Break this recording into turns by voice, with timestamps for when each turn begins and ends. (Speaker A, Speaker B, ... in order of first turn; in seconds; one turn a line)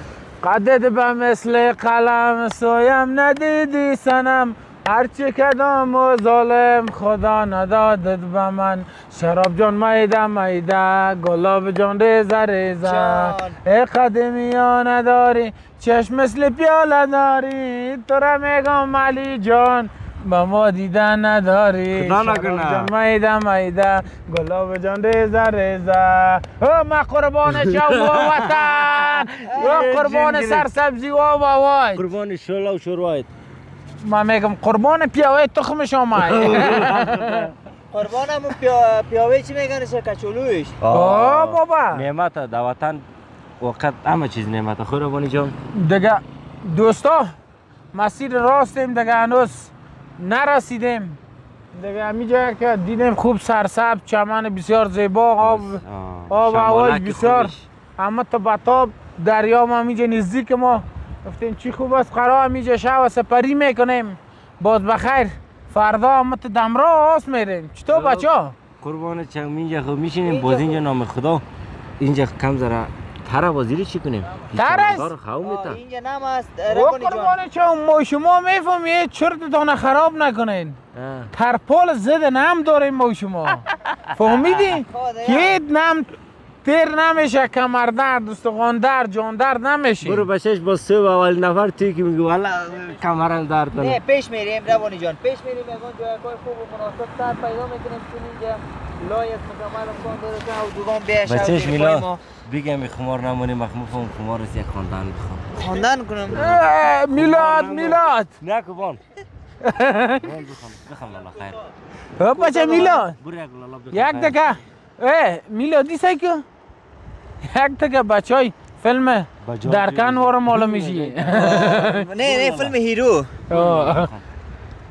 Speaker A: 0.4-32.0
Speaker B: 12.8-13.6
Speaker C: 21.9-22.9
Speaker C: 27.5-30.7
Speaker B: 29.5-29.9
Speaker C: 31.9-33.3
Speaker A: 34.0-37.5
Speaker C: 36.2-37.5
Speaker B: 37.9-40.8
Speaker C: 40.8-43.0
Speaker A: 40.9-42.0
Speaker C: 43.6-45.6
Speaker A: 45.7-47.3
Speaker A: 47.9-51.2
Speaker A: 51.7-68.5
Speaker C: 55.4-57.7
Speaker C: 67.9-68.3
Speaker C: 68.8-71.5
Speaker B: 70.2-70.8
Speaker C: 72.0-75.8
Speaker A: 74.5-75.1
Speaker B: 75.4-77.4
Speaker A: 76.7-80.8
Speaker C: 80.9-81.3
Speaker A: 81.3-86.1
Speaker B: 84.2-85.6
Speaker A: 86.6-90.3
Speaker C: 90.0-94.0
Speaker B: 93.7-102.2
Speaker C: 101.3-105.5
Speaker B: 105.6-106.7
Speaker A: 106.3-108.3
Speaker C: 107.1-109.0
Speaker A: 109.6-110.3
Speaker C: 110.2-111.6
Speaker A: 112.2-113.2
Speaker C: 112.3-114.4
Speaker A: 113.9-116.4
Speaker A: 117.4-122.1
Speaker C: 119.4-122.8
Speaker B: 121.3-123.4
Speaker A: 123.5-124.1
Speaker C: 123.5-124.3